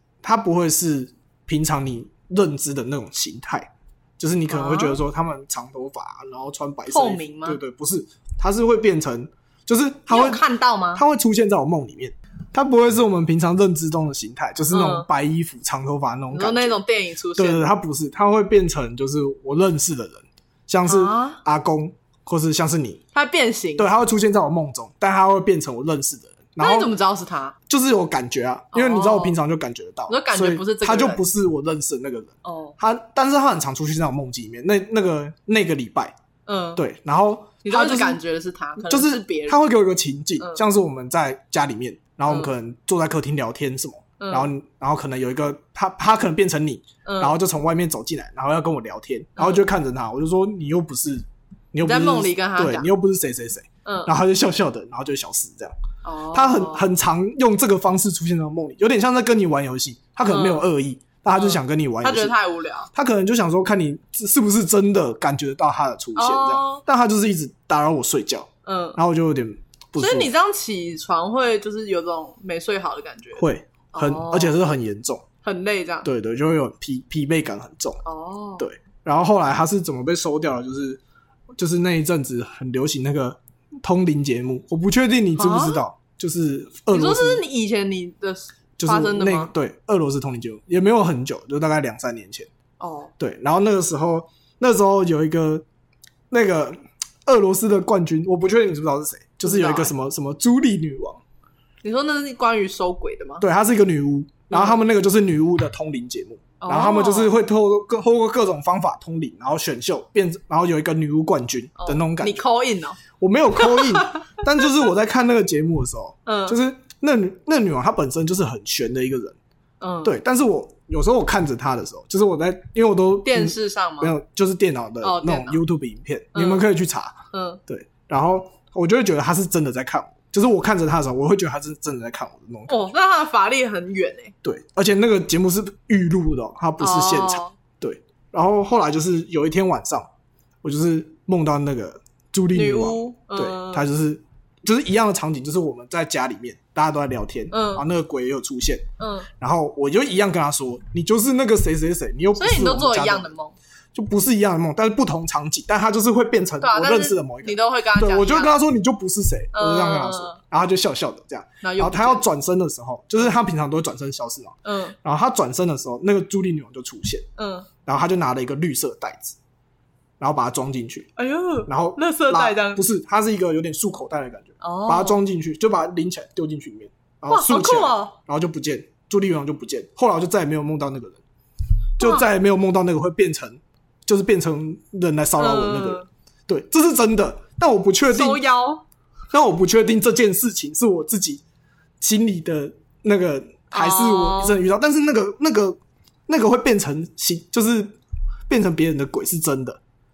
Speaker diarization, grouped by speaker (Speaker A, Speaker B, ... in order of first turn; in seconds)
Speaker A: 0.2-10.4, 10.9-16.8, 17.4-23.0, 23.8-26.9, 27.7-36.1, 36.8-38.2, 38.9-55.8, 56.3-62.4, 62.9-70.3, 73.4-75.2, 76.0-78.0, 78.6-81.0, 81.6-87.4, 88.8-92.5, 93.2-95.6, 96.3-101.2, 103.4-112.4, 113.2-119.4, 120.0-127.2, 127.7-132.8, 134.4-140.1, 140.6-148.9, 149.4-153.3, 153.9-167.2, 167.9-169.4, 170.2-171.1, 171.7-181.2, 182.0-188.4, 189.3-191.4, 192.0-199.8
Speaker B: 4.5-5.0, 6.9-7.6, 10.1-11.0, 14.7-15.1, 16.3-17.7, 20.9-21.4, 23.1-23.9, 26.6-27.6, 28.7-29.4, 30.1-31.2, 32.4-32.8, 36.5-36.8, 37.6-39.6, 44.2-44.5, 47.0-47.4, 49.4-49.6, 51.8-52.9, 53.9-54.1, 56.0-56.9, 60.2-60.7, 61.4-62.9, 66.2-66.8, 68.7-69.0, 70.0-74.6, 75.4-76.1, 78.0-78.6, 85.4-85.8, 86.9-89.5, 92.8-93.1, 99.4-99.9, 101.8-103.4, 104.5-104.8, 106.6-107.4, 111.8-113.0, 113.6-114.3, 116.2-116.6, 119.8-120.1, 123.2-124.1, 125.0-125.6, 126.3-126.7, 127.3-127.6, 132.7-134.3, 136.8-137.5, 142.5-143.9, 147.5-147.8, 149.0-149.3, 152.4-153.6, 156.6-158.6, 159.5-160.4, 161.6-162.2, 164.6-165.0, 167.4-167.7, 171.2-172.8, 174.6-175.2, 177.3-178.1, 182.0-182.2, 185.4-186.1, 188.1-188.8, 193.7-194.6